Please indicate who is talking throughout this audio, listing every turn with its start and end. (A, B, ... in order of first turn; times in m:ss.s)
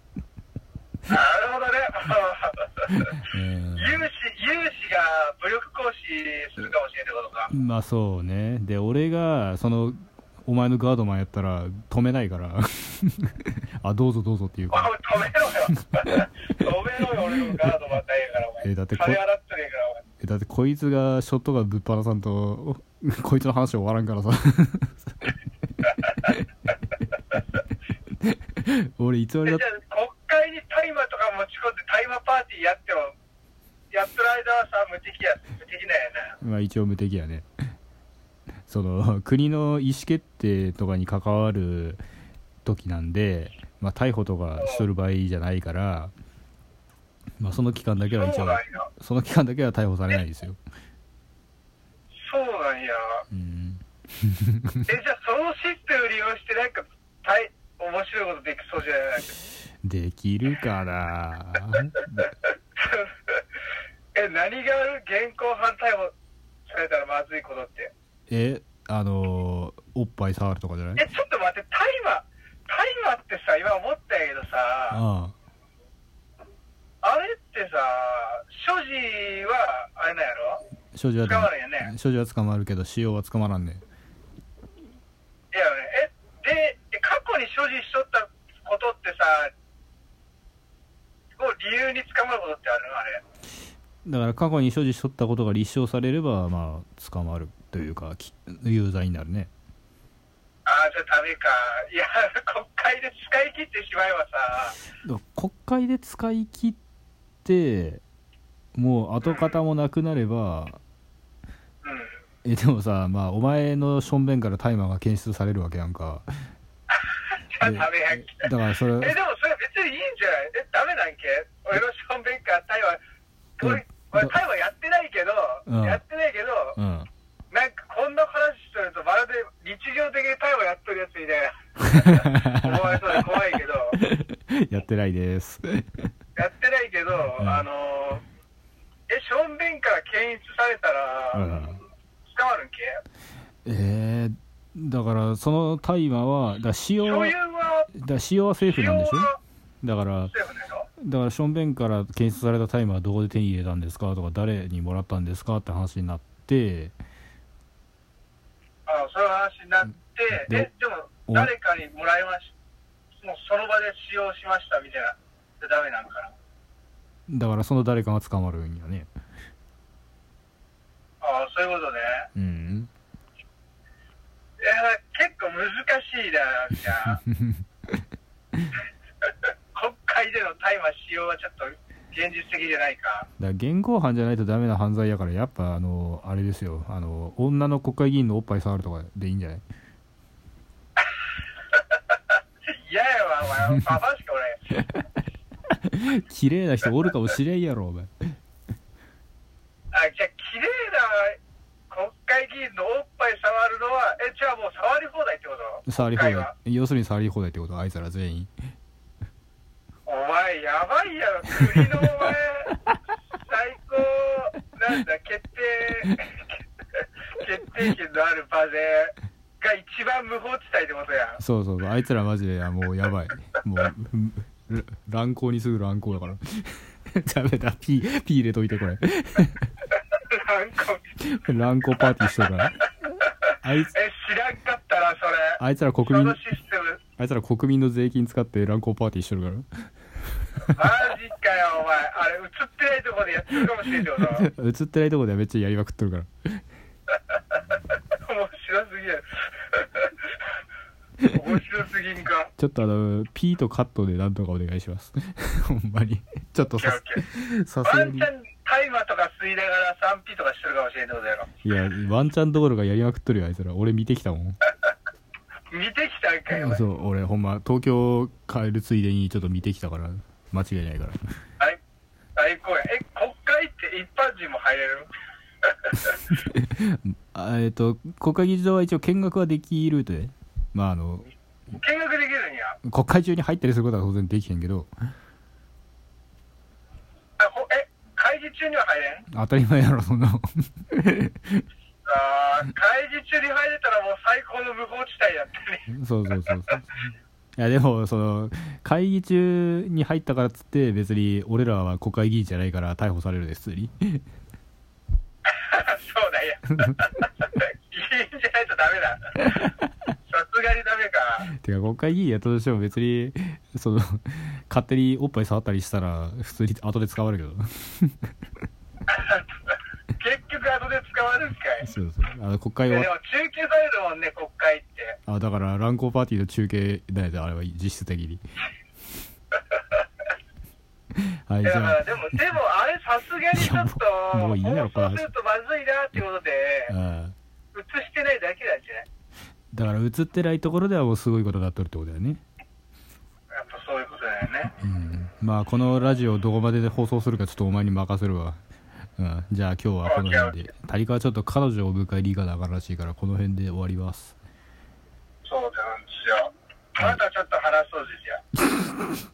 0:01.1-0:02.9 A
0:03.2-0:04.0 B
0:03.8-0:07.5 A
0:07.5-0:14.9 B
0:14.7-0:20.0 A
0:18.6-0:19.2 B
0:20.2-0:25.1 B
0:28.2-0:29.6 B
0:29.4-0:33.1 A
0:33.9-0:36.4 A
0:36.4-0:37.5 B
0:38.7-0:42.0 B
0:42.6-0:46.1 B
0:44.6-0:44.8 A
0:47.4-0:50.6 B
0:48.1-0:48.9 A
0:52.1-0:53.2 A
0:53.3-0:54.8 B
0:54.9-0:59.4 A
0:59.8-1:02.3 B
1:02.8-1:03.4 A
1:04.1-1:06.1 A
1:06.6-1:07.9 A
1:08.3-1:11.0 B
1:11.0-1:15.0 A
1:14.9-1:15.3 B
1:17.0-1:20.6 A
1:20.9-1:23.8 B
1:21.2-1:21.9 A
1:25.5-1:29.5 A
1:31.4-1:33.2 A
1:34.0-1:39.5 B
1:40.6-1:44.8 A
1:45.0-1:46.8 B
1:47.4-1:48.0 B
1:48.7-1:50.8 B
1:49.2-1:49.6 A
1:51.8-1:52.2 A
1:52.4-1:56.3 B
1:56.9-2:03.0 A
1:57.6-1:59.2 B
2:03.6-2:06.8 A
2:03.6-2:04.3 B
2:05.7-2:06.0 B
2:06.8-2:07.1 B
2:07.5-2:14.0 A
2:11.9-2:13.2 B
2:14.0-2:16.1 B
2:16.4-2:18.2 A
2:17.4-2:17.6 B
2:19.1-2:21.5 A
2:21.3-2:21.8 B
2:22.3-2:23.0 A
2:23.6-2:27.3 B
2:27.0-2:27.9 A
2:27.9-2:29.3 B
2:28.6-2:29.4 A
2:29.8-2:30.3 B
2:30.3-2:30.9 A
2:31.0-2:36.9 B
2:38.9-2:42.5 A
2:40.3-2:40.7 B
2:43.2-2:46.3 A
2:47.3-2:49.1 B
2:51.2-2:52.3 A
2:52.4-2:52.9 B
2:54.6-2:57.2 A
2:57.3-2:57.6 B
2:59.7-3:03.3 A
3:03.4-3:09.6 B
3:12.7-3:14.6 A
3:15.7-3:18.3 B
3:19.9-3:26.5 A
3:25.9-3:28.5 B
3:30.0-3:32.7 A
3:33.4-3:36.6 A
3:37.4-3:41.4 A
3:41.4-3:49.7 B
3:50.1-3:51.1 A
3:51.2-3:52.9 B
3:53.6-3:53.9 B
3:53.9-3:57.0 A
3:55.6-3:56.4 B
3:57.2-3:59.8 B
4:00.7-4:04.5 A
4:04.3-4:06.6 B
4:08.2-4:10.3 A
4:11.3-4:12.5 A
4:12.6-4:18.3 B
4:16.8-4:17.2 A
4:17.8-4:21.5 A
4:21.6-4:24.6 B
4:25.7-4:26.8 A
4:26.5-4:31.2 B
4:32.4-4:35.1 A
4:35.8-4:36.1 A
4:36.0-4:41.3 B
4:41.7-4:42.8 A
4:42.8-4:44.9 B
4:47.4-4:49.3 A
4:49.3-4:51.6 B
4:52.0-4:55.9 A
4:55.9-4:56.9 B
4:57.6-5:04.2 B
5:05.5-5:09.4 A
5:10.3-5:11.5 A
5:11.6-5:18.3 B
5:19.1-5:19.5 A
5:20.2-5:21.9 A
5:21.8-5:23.1 B
5:22.9-5:25.2 A
5:25.3-5:28.4 B
5:31.5-5:32.0 B
5:31.6-5:36.9 A
5:33.5-5:35.3 B
5:36.9-5:37.4 B
5:37.7-5:39.0 A
5:39.7-5:42.4 B
5:43.5-5:44.7 A
5:44.8-5:48.6 B
5:49.2-5:54.3 B
5:50.0-5:50.5 A
5:55.4-5:58.4 A
5:58.7-5:59.1 B